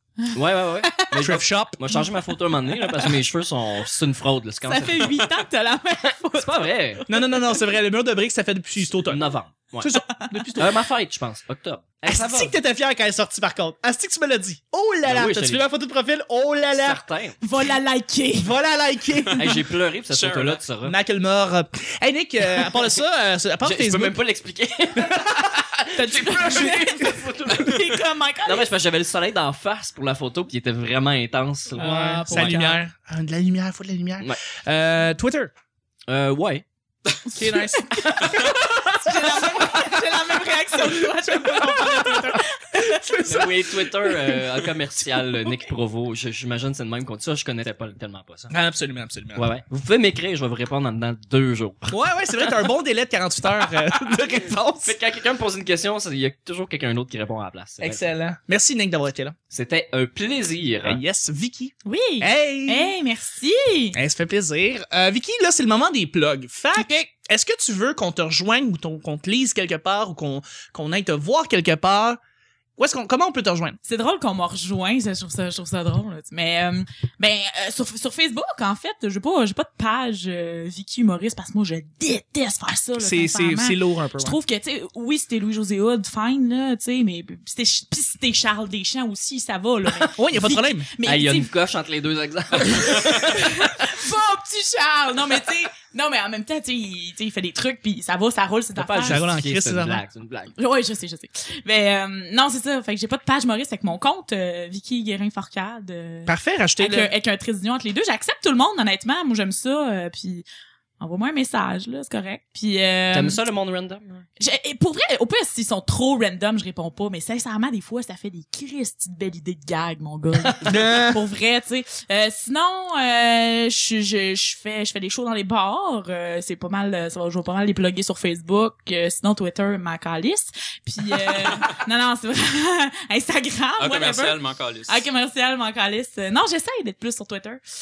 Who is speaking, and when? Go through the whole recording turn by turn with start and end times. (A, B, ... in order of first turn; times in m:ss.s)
0:00.3-0:01.1 A
0:00.3-0:05.2 B
0:01.1-0:01.8 C
0:02.8-0:03.1 A
0:04.6-0:07.6 A
0:06.3-0:07.0 B
0:07.1-0:09.2 C
0:09.0-0:10.0 B
0:09.8-0:10.7 C
0:10.6-0:12.5 B
0:12.0-0:17.0 C
0:15.0-0:15.6 B
0:16.8-0:17.4 B
0:17.4-0:18.5 A
0:18.4-0:19.5 C
0:19.4-0:20.9 B
0:20.1-0:20.6 D
0:20.8-0:24.2 C
0:22.5-0:22.8 B
0:23.6-0:32.7 B
0:25.0-0:25.4 C
0:25.9-0:28.7 A
0:31.8-0:35.5 C
0:31.8-0:32.8 A
0:36.1-0:36.6 B
0:37.3-0:40.0 C
0:37.4-0:43.4 A
0:41.0-0:44.2 C
0:43.2-0:48.5 B
0:48.5-0:49.4 C
0:49.4-0:52.6 B
0:51.9-0:54.9 C
0:53.7-0:54.2 B
0:54.8-0:58.0 B
0:57.8-0:59.3 C
0:59.5-1:01.0 B
1:00.8-1:02.9 C
1:01.8-1:04.0 A
1:03.9-1:12.2 C
1:06.8-1:07.0 A
1:12.8-1:13.8 C
1:13.8-1:31.5 A
1:23.0-1:24.4 C
1:29.8-1:30.1 B
1:30.2-1:30.9 C
1:31.0-1:33.7 B
1:32.6-1:39.2 A
1:38.7-1:40.5 B
1:39.0-1:40.0 C
1:40.6-1:50.4 A
1:46.3-1:47.1 C
1:51.0-1:53.4 A
1:53.1-1:54.2 B
1:54.4-2:14.4 A
2:00.6-2:01.2 C
2:11.2-2:11.7 D
2:13.8-2:15.0 D
2:14.9-2:17.6 A